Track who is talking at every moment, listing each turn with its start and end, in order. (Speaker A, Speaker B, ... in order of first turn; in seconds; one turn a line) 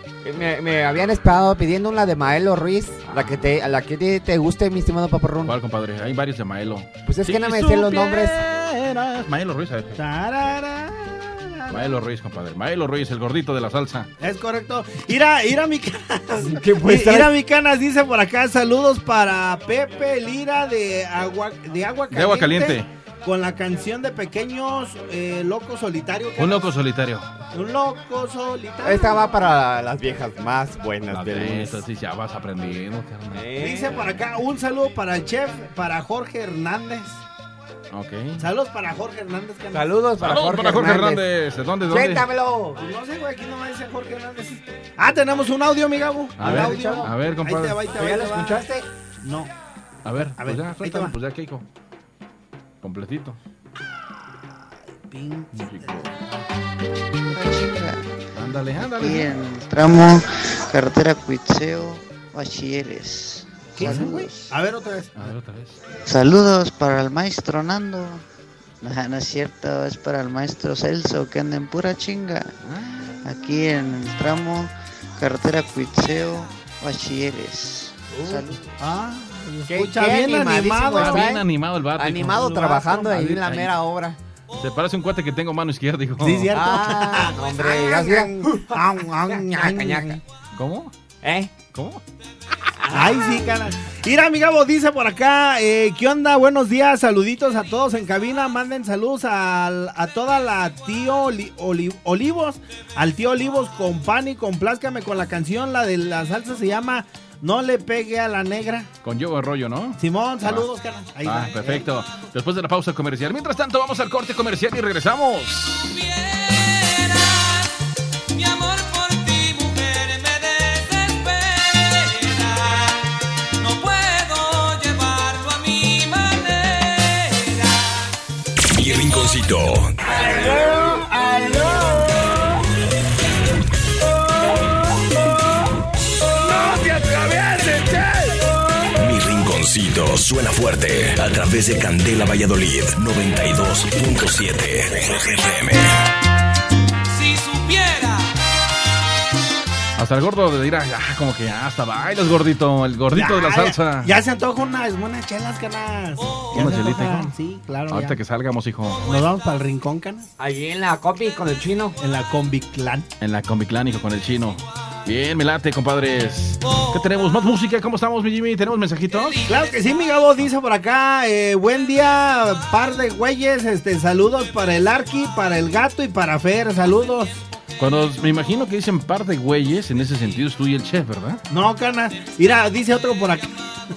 Speaker A: 0.2-5.5
Speaker B: 3.1-3.5
Speaker B: 5.5-10.0
Speaker A: 7.1-8.3
Speaker C: 9.9-12.0
Speaker B: 11.7-14.1
Speaker C: 14.2-26.7
Speaker A: 16.4-17.3
Speaker B: 22.1-22.9
Speaker B: 26.4-27.3
Speaker C: 27.5-29.2
Speaker A: 28.8-31.8
Speaker B: 31.1-33.5
Speaker A: 33.3-34.0
Speaker C: 33.6-37.2
Speaker B: 37.9-38.5
Speaker C: 38.4-39.9
Speaker A: 39.7-41.2
Speaker B: 40.2-42.2
Speaker A: 41.9-42.8
Speaker C: 42.8-48.6
Speaker B: 46.4-47.8
Speaker A: 46.4-47.1
Speaker A: 47.9-48.9
Speaker C: 49.2-49.5
Speaker B: 50.0-51.6
Speaker C: 50.4-51.1
Speaker B: 52.8-53.4
Speaker C: 55.0-56.1
Speaker B: 55.5-56.1
Speaker D: 57.3-58.0
Speaker B: 58.4-59.3
Speaker D: 58.5-64.5
Speaker C: 63.8-65.3
Speaker B: 63.8-64.2
Speaker B: 65.2-65.8
Speaker D: 66.1-68.2
Speaker D: 68.8-72.5
Speaker D: 73.2-78.7
Speaker A: 78.1-78.6
Speaker C: 78.8-81.3
Speaker A: 79.7-81.5
Speaker B: 81.0-83.7
Speaker A: 82.0-84.2
Speaker C: 82.3-83.1
Speaker B: 84.6-86.5
Speaker C: 86.2-90.2
Speaker A: 86.5-90.2
Speaker B: 90.5-90.9
Speaker A: 91.2-91.5
Speaker B: 91.7-92.0
Speaker A: 92.8-93.5
Speaker C: 92.9-108.9
Speaker B: 109.0-110.7
Speaker C: 110.0-111.9
Speaker B: 111.2-115.8
Speaker E: 115.5-117.7
Speaker E: 118.3-123.1
Speaker E: 123.6-128.1
Speaker F: 128.7-129.9
Speaker F: 138.9-146.0
Speaker E: 147.1-148.3
Speaker B: 150.0-154.1
Speaker C: 153.1-158.2
Speaker B: 156.5-157.3
Speaker B: 157.9-159.1
Speaker C: 159.0-160.3
Speaker A: 160.4-162.0
Speaker C: 162.0-163.1
Speaker B: 163.2-169.4
Speaker E: 166.6-167.2
Speaker E: 169.1-169.8
Speaker C: 169.4-177.3
Speaker B: 177.8-181.4
Speaker C: 181.5-183.6